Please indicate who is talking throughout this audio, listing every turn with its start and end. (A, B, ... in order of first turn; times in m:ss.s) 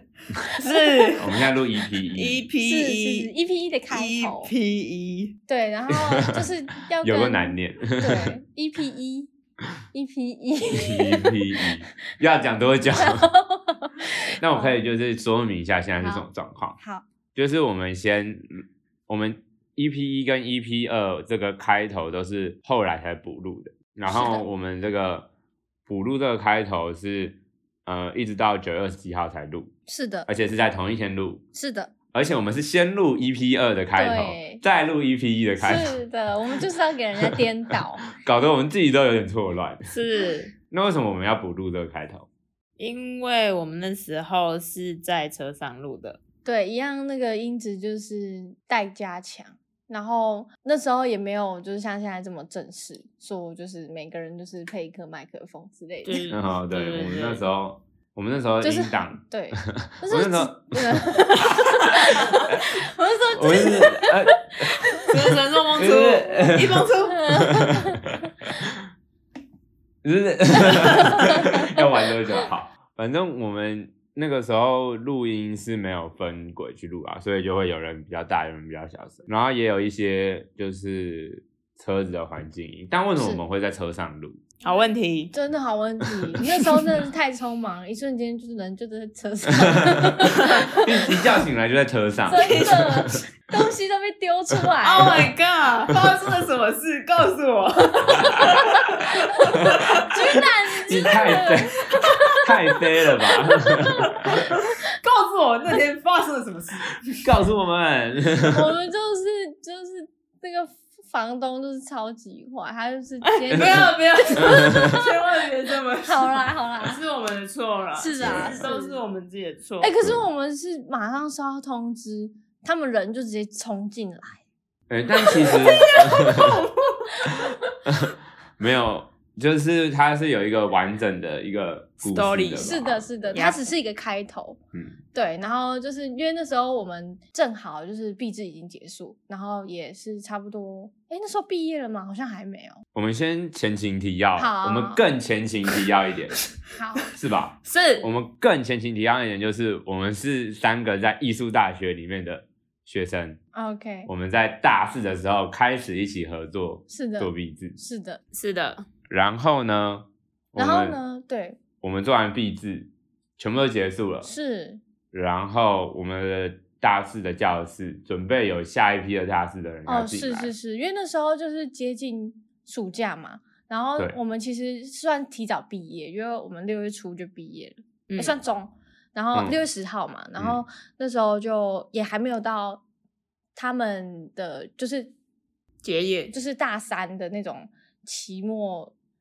0:00.6-0:01.4 A
0:01.2-0:02.4 B
0:02.1-0:03.3 A
0:02.6-0:04.5 C
0:03.9-0:05.4 A
0:05.5-0:09.3 C
0:05.9-0:06.4 B
0:07.0-0:08.3 B
0:09.9-0:11.6 C
0:10.7-0:13.3 B
0:13.0-0:14.8 C
0:14.4-0:16.8 B
0:16.0-0:16.3 C
0:16.8-0:17.0 C
0:17.3-0:25.3 B
0:24.1-0:24.4 C
0:25.9-0:29.7 B
0:29.9-0:30.3 C
0:30.2-0:31.4 B
0:31.5-0:31.9 C
0:32.1-0:36.0 B
0:34.0-0:34.6 C
0:35.6-0:38.0 C
0:38.1-0:39.9 B
0:39.9-0:40.5 A
0:40.7-0:42.3 B
0:42.8-0:46.2 A
0:46.4-0:56.2 C
0:56.0-0:57.4 A
0:56.3-0:59.2 B
0:58.6-1:04.3 C
0:59.7-1:01.3 B
1:03.3-1:04.8 B
1:05.1-1:07.4 A
1:05.8-1:07.8 B
1:07.1-1:08.0 C
1:10.0-1:24.4 B
1:10.9-1:11.8 C
1:23.2-1:23.4 C
1:24.6-1:25.3 A
1:24.6-1:31.1 C
1:29.6-1:33.2 B
1:32.3-1:35.2 C
1:32.3-1:32.9 A
1:34.8-1:40.4 A
1:35.9-1:36.3 B
1:38.3-1:38.8 C
1:39.7-1:40.1 B
1:40.0-1:42.4 C
1:40.9-1:44.2 B
1:43.6-1:44.6 C
1:44.2-1:47.2 A
1:47.2-1:48.7 B
1:48.3-1:55.3 C
1:53.2-1:59.9 A
1:53.5-1:55.0 B
1:56.0-1:57.0 C
1:57.9-1:59.0 C
1:58.2-1:58.7 B
1:59.8-2:04.4 C
2:04.9-2:06.6 B
2:05.4-2:06.2 C
2:05.4-2:07.1 A
2:07.8-2:13.4 B
2:12.0-2:13.6 A
2:12.6-2:14.6 C
2:15.1-2:22.8 C
2:22.9-2:26.4 B
2:24.4-2:25.0 C
2:26.7-2:27.1 C
2:27.0-2:33.4 B
2:27.6-2:28.1 A
2:33.5-2:34.1 C
2:34.1-2:37.8 B
2:36.9-2:38.2 C
2:38.3-2:38.8 A
2:39.1-2:41.0 B
2:40.6-2:41.6 C
2:41.8-2:44.3 B
2:44.2-2:44.8 C
2:45.1-2:50.5 B
2:49.8-3:02.8 C
2:58.1-2:58.4 A
3:03.5-3:05.1 C
3:05.8-3:06.3 A
3:06.3-3:08.9 C